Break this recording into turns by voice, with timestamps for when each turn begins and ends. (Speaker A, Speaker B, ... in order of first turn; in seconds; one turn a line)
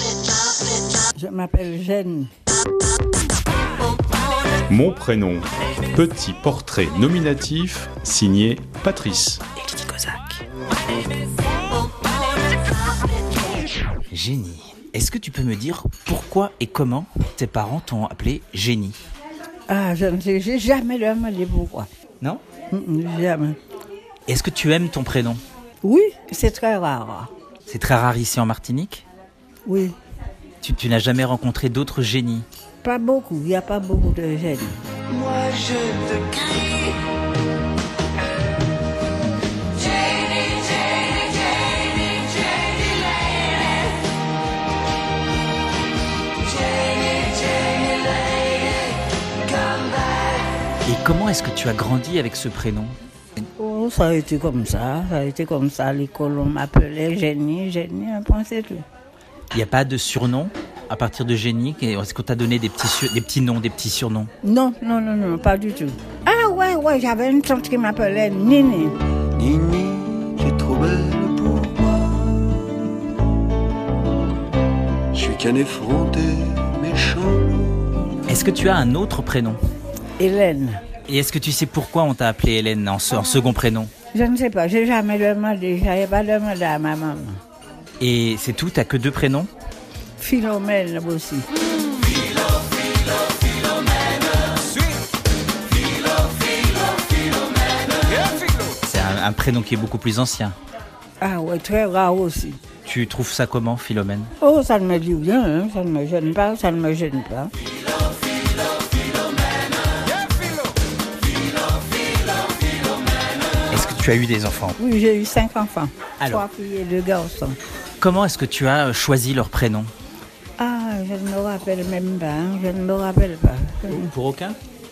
Speaker A: 1.1-2.3
Speaker B: 4.7-9.4
Speaker C: 9.6-10.4
Speaker C: 14.1-19.0
Speaker A: 19.7-21.9
Speaker A: 22.7-23.6
Speaker C: 24.3-25.4
Speaker A: 25.8-27.3
Speaker C: 27.7-29.0
Speaker A: 29.6-29.9
Speaker C: 30.6-32.5
Speaker A: 32.8-34.8
Speaker D: 35.2-36.1
Speaker C: 50.8-52.9
Speaker A: 53.6-58.8
Speaker C: 59.5-64.3
Speaker A: 64.4-68.9
Speaker D: 69.3-72.6
Speaker D: 75.1-77.8
Speaker C: 78.3-79.6
Speaker A: 80.2-80.8
Speaker C: 81.1-83.9
Speaker A: 84.1-87.4
Speaker C: 88.0-89.5
Speaker A: 90.2-91.5
Speaker C: 98.4-100.5
Speaker A: 101.2-102.6
Speaker C: 102.8-104.3
Speaker A: 104.4-107.5
Speaker C: 113.7-114.8
Speaker A: 114.8-117.6
Speaker C: 118.0-119.9
Speaker A: 120.6-124.0
Speaker C: 123.9-124.6